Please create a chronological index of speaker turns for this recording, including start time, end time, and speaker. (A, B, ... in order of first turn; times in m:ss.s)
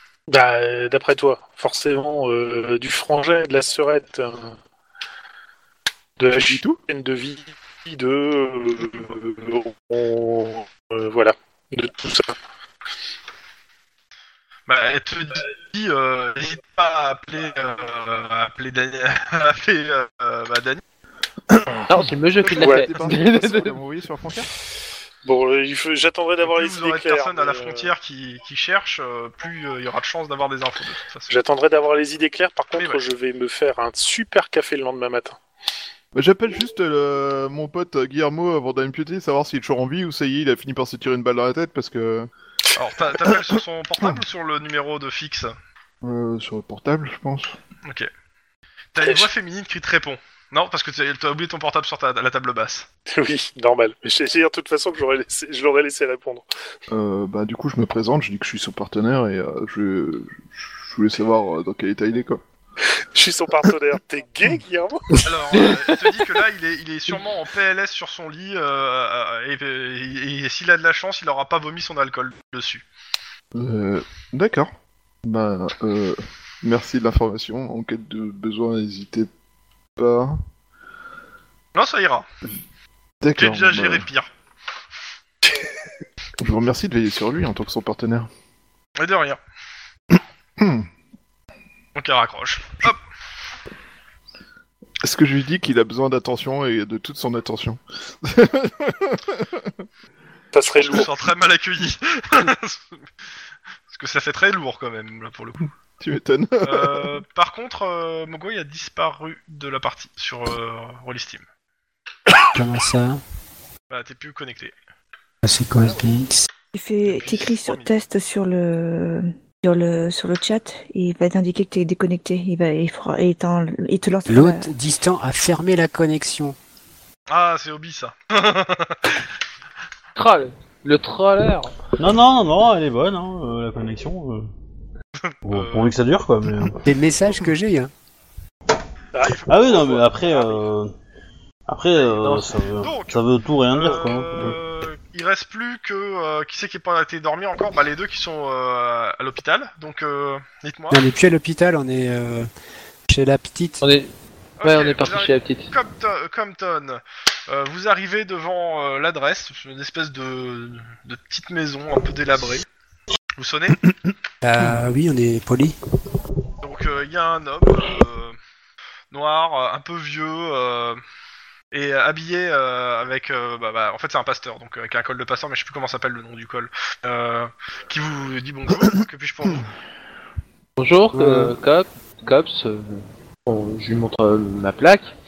0:00.3-0:04.6 A
0:06.2-0:12.4 A
0:06.4-0:06.8 B
0:14.7-0:20.8 C
0:21.5-0:21.8 B
0:21.9-0:23.8 D
0:22.4-0:24.5 B
0:22.6-0:22.9 A
0:25.2-0:27.9 A
0:26.4-0:31.3 C
0:31.3-0:35.4 A
0:32.7-0:33.0 C
0:36.1-0:42.3 B
0:42.7-0:45.6 C
0:46.0-0:47.6 B
0:48.9-0:52.9 C
0:53.1-0:56.5 A
0:56.9-1:02.4 B
1:03.1-1:05.2 A
1:05.2-1:12.8 C
1:13.5-1:14.7 B
1:15.2-1:19.3 B
1:20.0-1:20.4 B
1:21.8-1:22.3 C
1:23.2-1:24.1 B
1:23.4-1:24.3 C
1:26.4-1:28.3 B
1:29.0-1:29.4 C
1:30.6-1:30.9 B
1:32.0-1:33.0 C
1:35.0-1:39.8 B
1:40.5-1:41.1 A
1:40.8-1:43.0 C
1:43.9-1:45.7 C
1:46.0-1:47.2 B
1:46.6-1:51.5 C
1:52.5-1:53.2 E
1:53.9-1:54.7 C
1:55.4-1:56.5 E
1:56.7-2:04.7 F
1:57.0-1:57.9 C
2:04.3-2:06.6 E
2:07.3-2:09.2 C
2:10.2-2:11.8 D
2:12.0-2:14.5 G
2:15.3-2:15.9 C
2:15.5-2:16.9 G
2:16.8-2:17.9 E
2:19.1-2:20.6 A
2:19.2-2:20.4 C
2:19.5-2:20.9 G
2:21.7-2:24.6 G
2:22.8-2:23.2 C
2:23.7-2:31.0 C
2:30.9-2:32.5 E
2:33.1-2:33.8 E
2:33.8-2:34.1 D
2:34.6-2:42.7 C
2:34.6-2:35.7 D
2:43.4-2:43.8 C
2:44.4-2:45.8 E
2:46.6-2:48.4 C
2:49.1-2:51.0 C
2:51.7-2:59.7 C
3:00.8-3:05.1 D
3:01.1-3:01.6 E